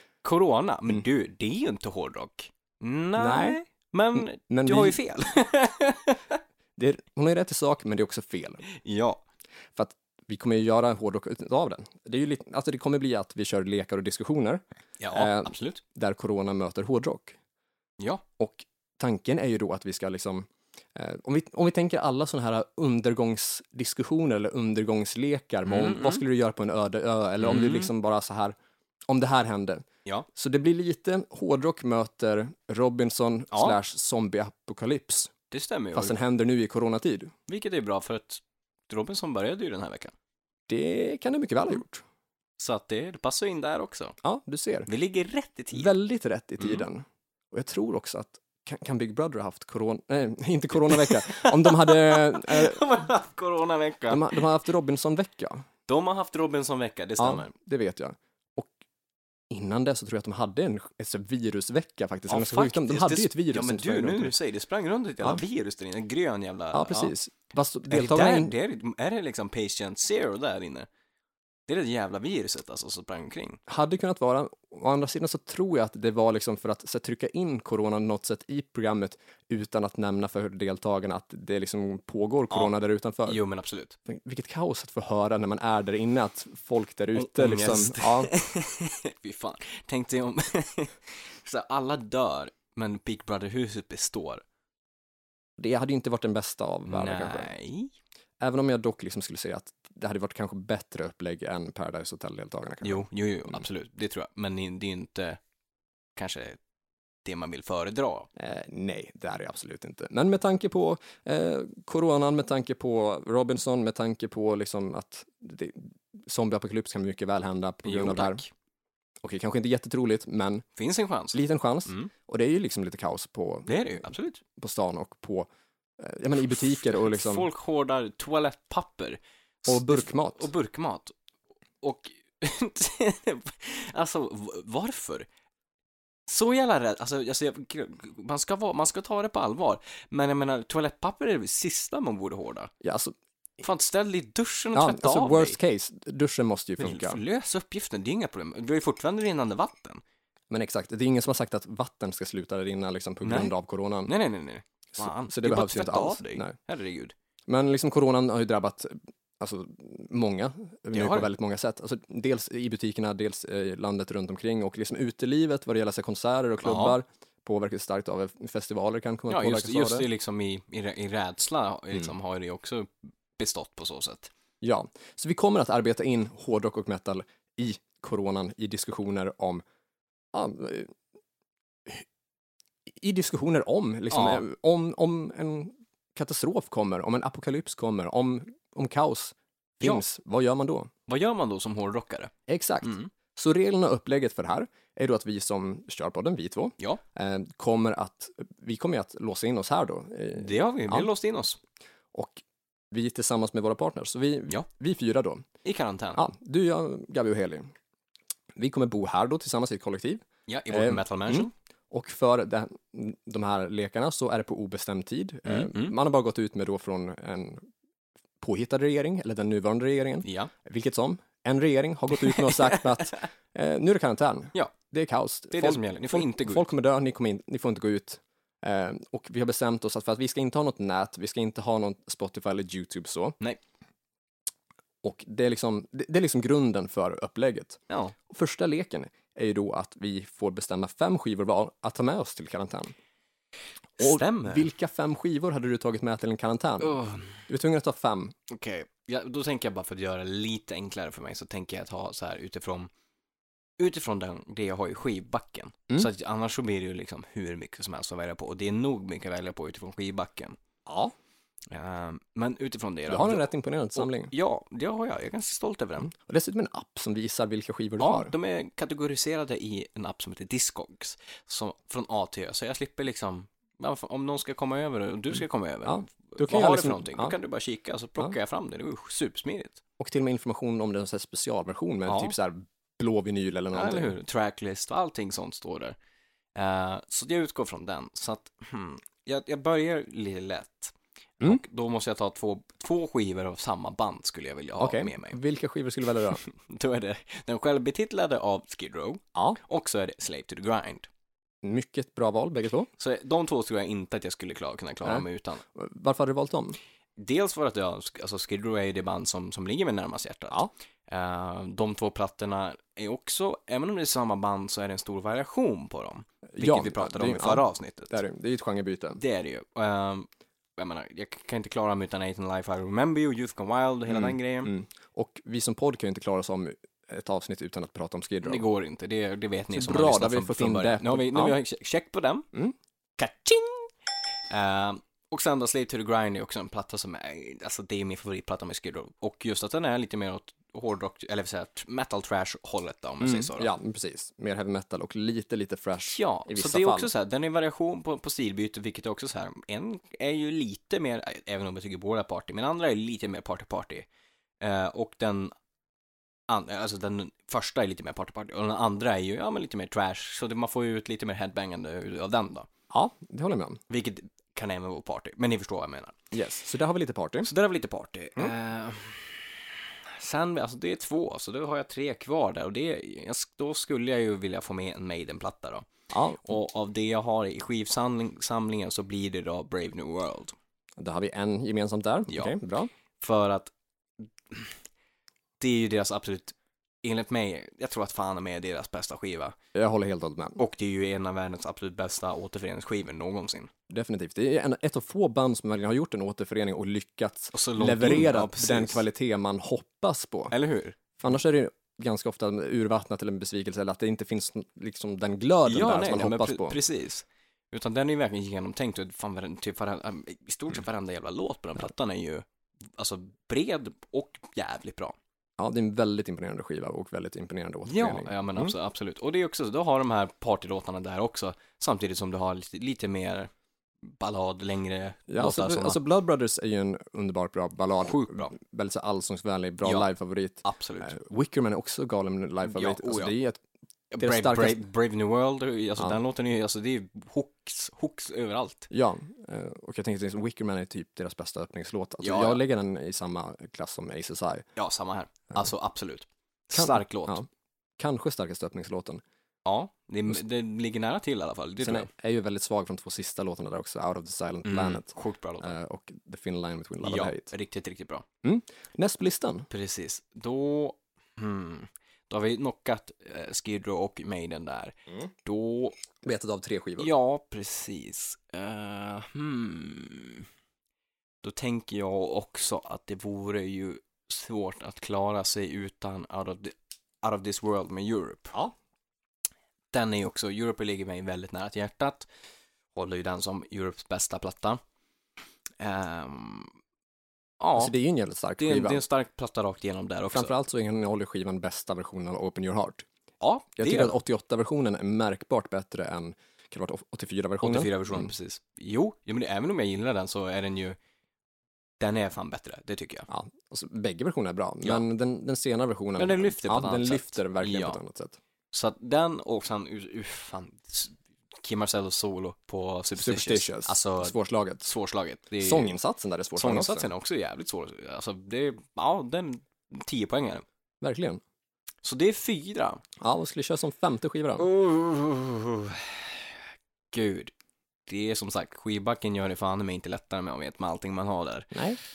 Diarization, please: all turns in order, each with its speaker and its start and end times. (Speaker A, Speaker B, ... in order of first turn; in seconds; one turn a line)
Speaker A: 0.2-6.4
Speaker B: 3.2-3.6
Speaker B: 4.2-5.0
Speaker B: 6.8-8.6
Speaker A: 8.7-9.2
Speaker B: 9.8-17.4
Speaker A: 15.0-15.8
Speaker A: 18.0-18.2
Speaker B: 18.4-28.6
Speaker A: 25.7-26.2
Speaker A: 27.4-27.9
Speaker B: 29.1-35.3
Speaker A: 33.5-33.8
Speaker A: 35.5-36.2
Speaker B: 35.9-37.3
Speaker A: 37.5-40.1
Speaker B: 40.7-42.0
Speaker A: 42.6-44.2
Speaker B: 44.2-44.9
Speaker A: 44.9-45.9
Speaker B: 45.7-53.1
Speaker A: 50.9-54.4
Speaker B: 54.1-55.7
Speaker A: 55.9-57.5
Speaker B: 57.2-58.7
Speaker B: 59.5-64.3
Speaker A: 62.3-67.1
Speaker B: 66.7-68.5
Speaker A: 67.9-70.9
Speaker A: 71.7-73.6
Speaker B: 73.7-83.4
Speaker A: 83.3-84.0
Speaker B: 84.1-88.3
Speaker A: 87.2-94.4
Speaker B: 95.6-97.5
Speaker A: 96.9-97.9
Speaker B: 98.4-103.1
Speaker A: 102.8-105.4
Speaker A: 106.2-106.6
Speaker A: 107.2-108.3
Speaker B: 108.4-118.4
Speaker A: 117.8-118.5
Speaker B: 119.2-120.7
Speaker A: 120.8-122.1
Speaker B: 121.3-123.8
Speaker A: 123.7-124.4
Speaker B: 124.6-125.5
Speaker B: 126.0-127.5
Speaker A: 126.9-131.1
Speaker B: 129.7-130.5
Speaker A: 131.8-135.3
Speaker A: 136.3-142.7
Speaker B: 142.8-143.2
Speaker A: 143.6-145.6
Speaker B: 144.7-147.2
Speaker A: 146.8-150.0
Speaker B: 150.5-154.1
Speaker A: 153.2-153.5
Speaker A: 154.1-157.1
Speaker B: 155.0-156.6
Speaker B: 157.5-170.1
Speaker A: 160.9-161.3
Speaker A: 166.6-167.0
Speaker A: 169.3-174.3
Speaker B: 174.6-179.6
Speaker B: 180.3-180.9
Speaker B: 182.9-190.9
Speaker A: 184.1-184.4
Speaker A: 191.1-192.3
Speaker B: 192.5-201.1
Speaker A: 192.8-193.1
Speaker A: 200.3-201.6
Speaker B: 202.1-205.4
Speaker A: 205.6-206.2
Speaker B: 206.2-207.7
Speaker B: 208.6-217.7
Speaker A: 210.5-211.5
Speaker A: 215.5-215.9
Speaker B: 218.4-233.4
Speaker A: 220.2-220.5
Speaker A: 222.3-222.8
Speaker A: 225.5-226.7
Speaker B: 235.0-242.9
Speaker A: 244.0-244.7
Speaker B: 244.0-248.3
Speaker A: 246.8-247.5
Speaker A: 248.5-252.9
Speaker A: 253.8-260.6
Speaker B: 260.9-261.1
Speaker A: 261.7-266.1
Speaker B: 263.1-264.3
Speaker B: 266.1-268.3
Speaker A: 268.0-279.8
Speaker B: 275.9-277.3
Speaker B: 280.0-284.1
Speaker A: 282.1-282.4
Speaker A: 283.7-286.0
Speaker A: 286.6-295.4
Speaker B: 294.8-296.4
Speaker A: 296.4-301.1
Speaker B: 301.6-302.9
Speaker A: 303.0-305.6
Speaker B: 305.0-306.8
Speaker A: 307.2-318.2
Speaker B: 316.6-319.2
Speaker A: 319.2-324.7
Speaker B: 324.1-328.6
Speaker A: 328.4-332.5
Speaker B: 329.7-331.6
Speaker A: 333.2-333.9
Speaker A: 334.5-343.7
Speaker B: 343.2-347.1
Speaker A: 346.1-354.1
Speaker A: 354.6-355.5
Speaker A: 356.5-362.7
Speaker B: 362.9-363.8
Speaker A: 363.9-366.2
Speaker B: 366.3-367.5
Speaker A: 367.4-375.9
Speaker B: 376.1-376.4
Speaker A: 376.4-380.6
Speaker B: 381.0-382.9
Speaker A: 383.2-383.7
Speaker A: 384.5-384.8
Speaker A: 385.6-389.6
Speaker B: 389.7-390.6
Speaker A: 390.6-393.7
Speaker B: 393.9-400.5
Speaker A: 397.5-399.1
Speaker A: 400.5-401.0
Speaker B: 401.2-406.8
Speaker A: 405.6-412.5
Speaker A: 413.0-415.2
Speaker B: 415.6-418.7
Speaker A: 417.9-423.5
Speaker A: 424.1-426.0
Speaker B: 425.3-433.6
Speaker A: 428.0-428.5
Speaker A: 429.8-430.1
Speaker A: 430.6-431.2
Speaker A: 432.6-433.4
Speaker A: 434.1-438.9
Speaker B: 434.2-434.8
Speaker B: 438.9-444.7
Speaker A: 442.2-442.6
Speaker A: 444.8-447.4
Speaker B: 446.7-447.5
Speaker B: 448.0-449.2
Speaker A: 449.6-452.1
Speaker B: 451.8-457.5
Speaker A: 454.6-455.8
Speaker A: 457.0-458.2
Speaker B: 458.4-459.7
Speaker A: 459.7-466.0
Speaker B: 466.2-467.1
Speaker A: 467.0-470.5
Speaker A: 471.4-478.6
Speaker A: 479.9-482.3
Speaker A: 482.9-484.8
Speaker A: 485.8-486.7
Speaker A: 487.6-487.9
Speaker B: 487.8-489.0
Speaker A: 488.6-490.5
Speaker B: 490.3-493.1
Speaker A: 493.4-494.2
Speaker B: 493.8-498.3
Speaker A: 497.6-501.0
Speaker A: 502.0-503.3
Speaker B: 503.3-508.4
Speaker A: 506.2-508.0
Speaker A: 508.7-515.9
Speaker B: 513.2-514.9
Speaker B: 515.6-517.1
Speaker A: 516.6-520.6
Speaker B: 521.0-521.4
Speaker A: 522.0-523.0
Speaker B: 523.2-524.7
Speaker A: 524.6-526.5
Speaker A: 527.1-527.5
Speaker A: 528.1-531.8
Speaker B: 531.7-532.0